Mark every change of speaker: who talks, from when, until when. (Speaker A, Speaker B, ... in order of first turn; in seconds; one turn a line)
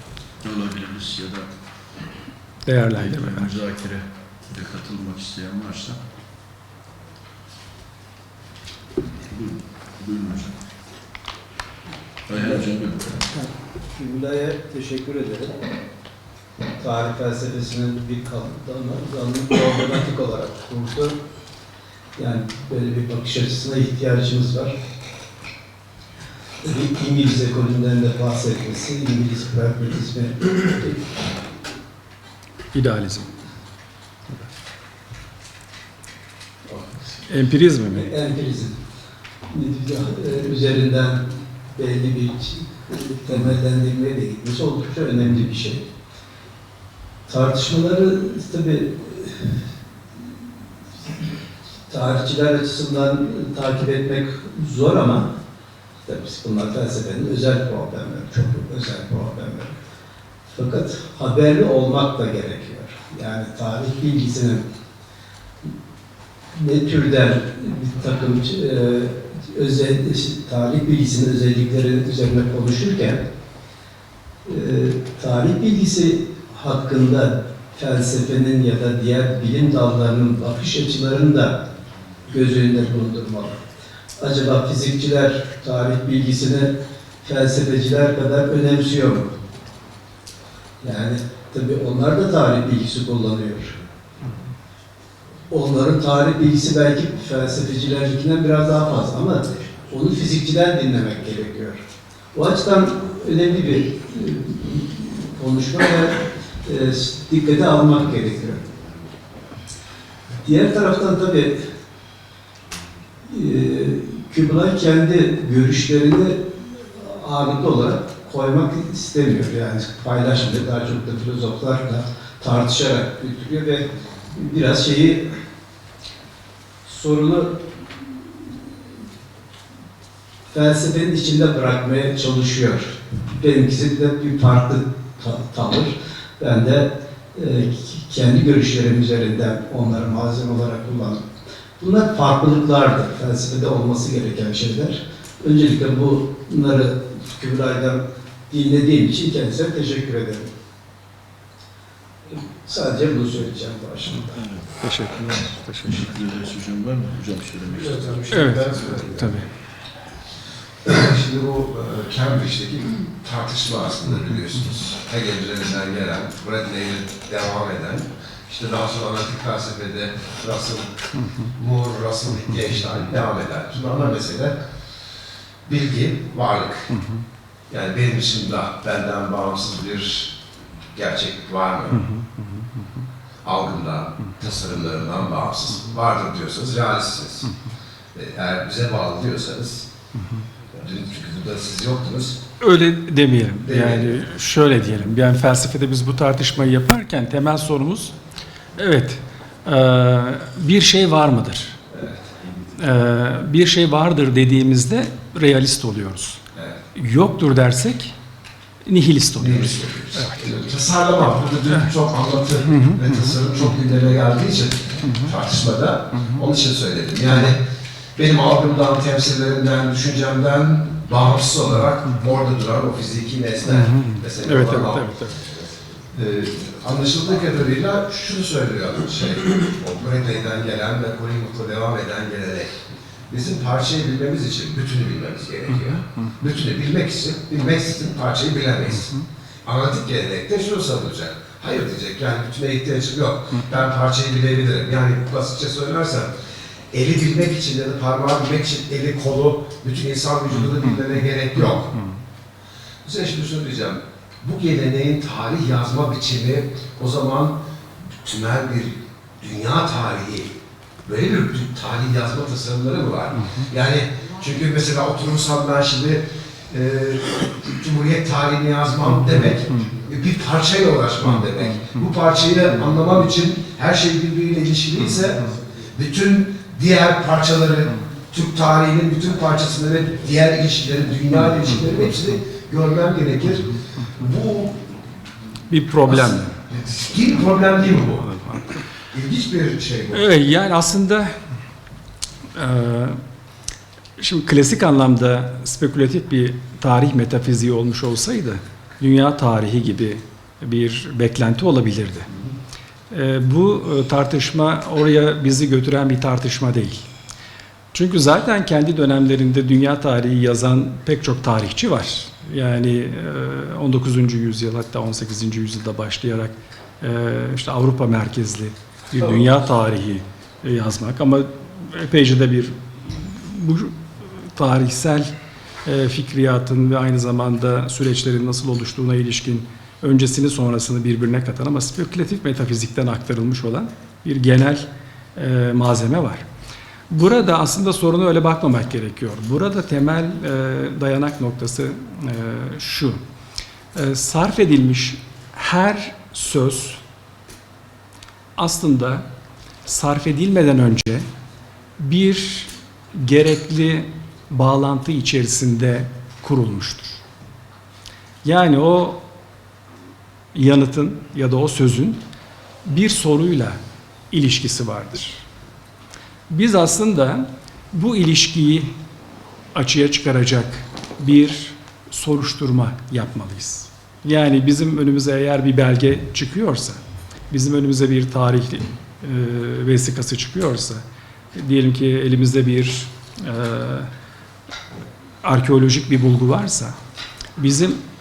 Speaker A: 0.4-1.5
Speaker B: 2.6-3.5
Speaker A: 3.0-6.0
Speaker A: 9.2-10.6
Speaker A: 12.3-13.3
Speaker C: 13.3-15.6
Speaker C: 16.8-21.2
Speaker C: 22.2-24.8
Speaker C: 26.6-31.1
Speaker B: 32.7-33.3
Speaker C: 36.7-37.2
Speaker B: 37.3-38.1
Speaker C: 37.9-38.8
Speaker C: 39.5-45.9
Speaker C: 47.3-49.5
Speaker C: 51.9-55.3
Speaker C: 56.0-59.8
Speaker C: 60.5-64.6
Speaker C: 66.5-73.2
Speaker C: 74.5-81.6
Speaker C: 82.3-83.6
Speaker C: 84.2-89.3
Speaker C: 90.8-93.8
Speaker C: 95.5-101.8
Speaker C: 102.3-108.6
Speaker C: 110.4-111.6
Speaker C: 113.3-125.3
Speaker C: 126.8-127.6
Speaker C: 130.5-141.2
Speaker C: 141.8-150.5
Speaker C: 152.3-154.3
Speaker A: 154.3-154.8
Speaker B: 154.8-156.1
Speaker A: 155.8-158.9
Speaker D: 158.1-159.4
Speaker B: 158.3-159.5
Speaker D: 160.8-170.9
Speaker D: 171.5-174.5
Speaker D: 175.7-176.9
Speaker D: 177.7-180.4
Speaker D: 180.9-182.0
Speaker B: 182.0-182.4
Speaker D: 183.4-187.5
Speaker D: 188.1-189.9
Speaker D: 190.8-192.4
Speaker B: 192.6-198.1
Speaker D: 193.6-194.2
Speaker B: 198.8-201.8
Speaker D: 201.9-202.2
Speaker B: 202.8-206.4
Speaker B: 206.9-208.1
Speaker B: 208.8-210.4
Speaker D: 209.4-217.6
Speaker B: 212.7-213.3
Speaker D: 218.2-225.1
Speaker B: 223.7-225.4
Speaker D: 226.1-239.1
Speaker D: 239.6-246.3
Speaker D: 246.9-252.0
Speaker D: 253.0-260.5
Speaker D: 261.0-284.8
Speaker B: 271.4-272.0
Speaker B: 285.7-286.6
Speaker D: 286.0-288.3
Speaker B: 288.3-288.7
Speaker D: 289.1-290.3
Speaker B: 290.1-291.4
Speaker B: 292.6-293.2
Speaker B: 294.2-302.3
Speaker B: 303.1-307.0
Speaker B: 307.9-325.3
Speaker B: 325.8-336.4
Speaker B: 337.1-343.2
Speaker B: 343.9-347.0
Speaker B: 348.6-349.3
Speaker B: 349.9-351.2
Speaker B: 352.0-357.2
Speaker B: 358.4-359.2
Speaker B: 360.5-362.2
Speaker B: 362.8-363.8
Speaker B: 364.3-365.4
Speaker B: 366.5-368.9
Speaker B: 369.7-381.0
Speaker B: 381.5-384.1
Speaker B: 385.4-387.0
Speaker B: 387.6-388.0